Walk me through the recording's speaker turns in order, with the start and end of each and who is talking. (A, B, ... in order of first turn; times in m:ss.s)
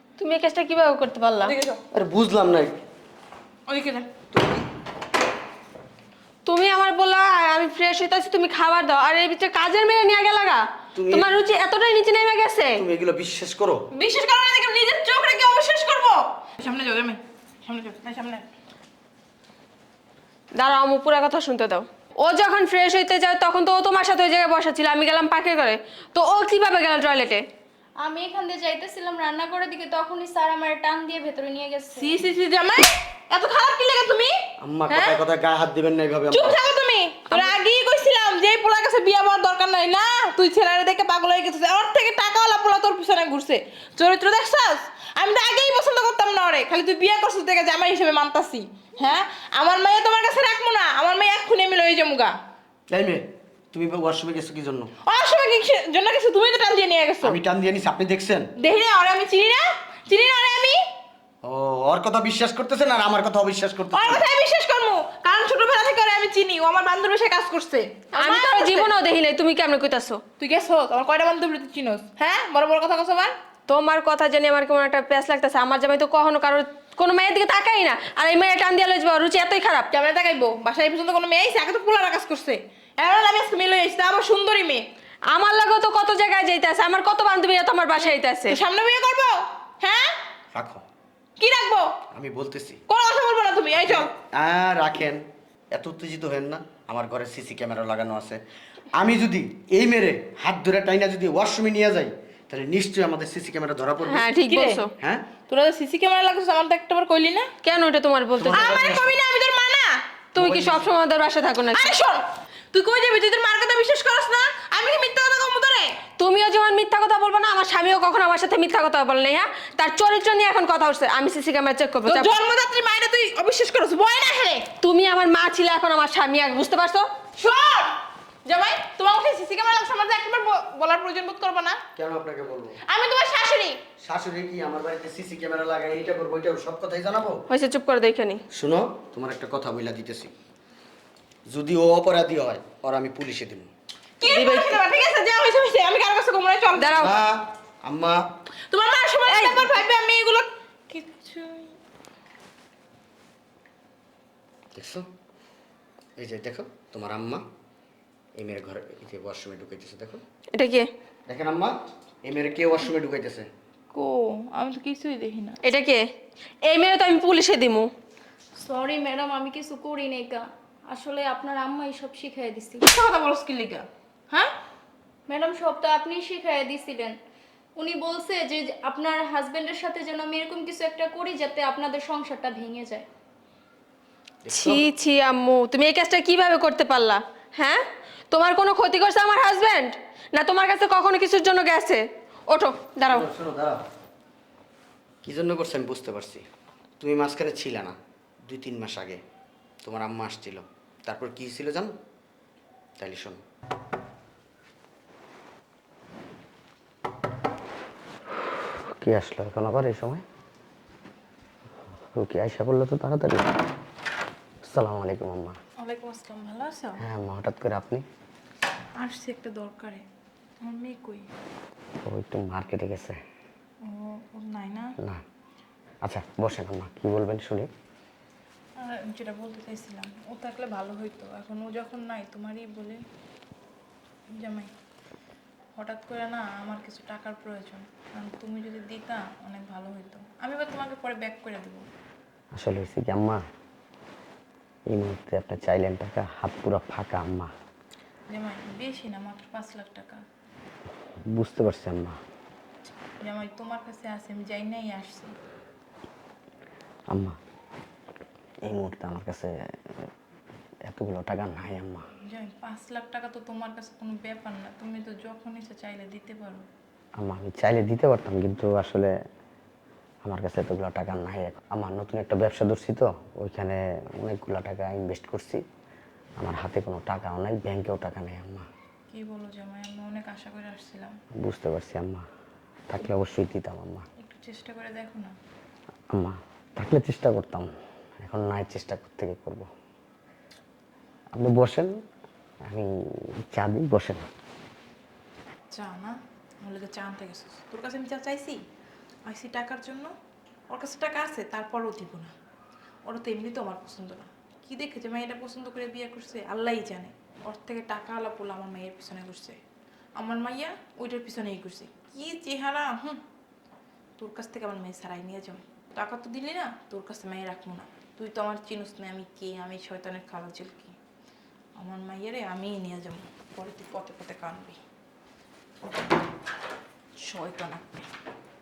0:00.2-0:01.6 A
0:01.4-0:01.8 B
0:01.9-0:02.7 C
0:03.7-0:04.1 B
0:04.3-0:04.6 C
0:06.4-0:12.8 A
0:10.9-0:11.3 C
0:12.8-0:13.8 C
0:13.9-0:18.4 B
0:20.5-0:27.4 A
0:28.0-0:32.2 D
0:31.9-0:34.3 B
0:34.6-0:36.6 C
0:34.9-0:35.2 B
0:36.3-0:52.3 B
0:52.9-0:54.9 C
0:55.0-0:57.4 B
0:57.2-0:58.5 C
0:58.6-1:00.8 B
1:01.4-1:04.2 C
1:03.9-1:08.9 B
1:08.1-1:10.2 A
1:10.4-1:13.3 B
1:13.7-1:19.9 A
1:19.9-1:24.8 B
1:25.3-1:28.6 A
1:28.5-1:30.2 B
1:30.5-1:30.8 C
1:31.4-1:31.9 B
1:32.1-1:32.8 C
1:32.9-1:34.1 B
1:33.9-1:38.4 C
1:38.9-1:44.3 C
1:44.0-1:44.9 A
1:44.5-1:44.8 B
1:45.0-1:45.2 C
1:45.5-1:47.5 B
1:47.6-1:48.8 A
1:48.4-1:49.2 C
1:48.5-1:50.0 B
1:50.3-1:52.0 A
1:50.4-1:50.8 C
1:51.7-1:56.0 B
1:56.2-2:02.3 A
2:02.0-2:04.6 B
2:04.8-2:07.1 A
2:07.4-2:11.8 B
2:11.9-2:12.8 C
2:12.8-2:13.8 B
2:14.0-2:17.4 C
2:17.5-2:18.4 A
2:18.5-2:20.3 C
2:21.5-2:23.7 C
2:24.2-2:27.2 B
2:24.2-2:24.8 A
2:26.8-2:27.2 A
2:27.0-2:28.2 C
2:28.7-2:31.7 B
2:29.3-2:29.8 A
2:34.7-2:35.0 C
2:36.2-2:37.4 C
2:38.4-2:40.2 C
2:40.6-2:40.9 A
2:41.3-2:43.5 C
2:43.9-2:45.6 B
2:45.6-2:46.1 A
2:46.6-2:47.9 A
2:48.6-2:52.8 D
2:52.8-2:54.5 B
2:55.3-2:57.2 D
2:57.8-3:03.1 D
3:04.4-3:04.9 C
3:04.5-3:13.3 A
3:13.1-3:13.8 C
3:15.2-3:16.4 C
3:17.0-3:19.2 C
3:19.8-3:21.9 C
3:23.0-3:23.4 C
3:29.0-3:30.2 C
3:32.1-3:33.5 C
3:34.6-3:35.6 C
3:35.8-3:37.0 B
3:37.0-3:38.0 C
3:39.0-3:40.0 B
3:40.6-3:41.3 B
3:42.0-3:43.2 C
3:43.8-3:45.0 B
3:46.0-3:47.7 C
3:48.8-3:53.0 B
3:54.3-3:54.7 B
3:55.8-4:01.8 B
4:02.5-4:03.4 C
4:04.9-4:07.5 C
4:08.3-4:10.2 B
4:11.3-4:12.2 C
4:13.2-4:15.3 B
4:17.1-4:17.4 C
4:18.6-4:19.5 C
4:20.8-4:22.0 C
4:22.2-4:26.6 B
4:27.2-4:29.1 C
4:30.2-4:35.6 C
4:36.4-4:38.7 C
4:39.1-4:41.2 B
4:41.4-4:42.2 C
4:42.9-4:44.0 C
4:44.2-4:45.3 B
4:46.1-4:47.7 C
4:48.2-4:49.7 C
4:51.3-4:51.9 C
4:52.6-4:52.9 C
4:53.5-4:54.2 C
4:55.7-4:58.6 B
4:59.3-5:00.1 B
5:00.7-5:02.3 B
5:03.0-5:09.6 B
5:10.2-5:13.2 B
5:14.2-5:21.0 B
5:21.8-5:24.8 B
5:27.2-5:28.0 B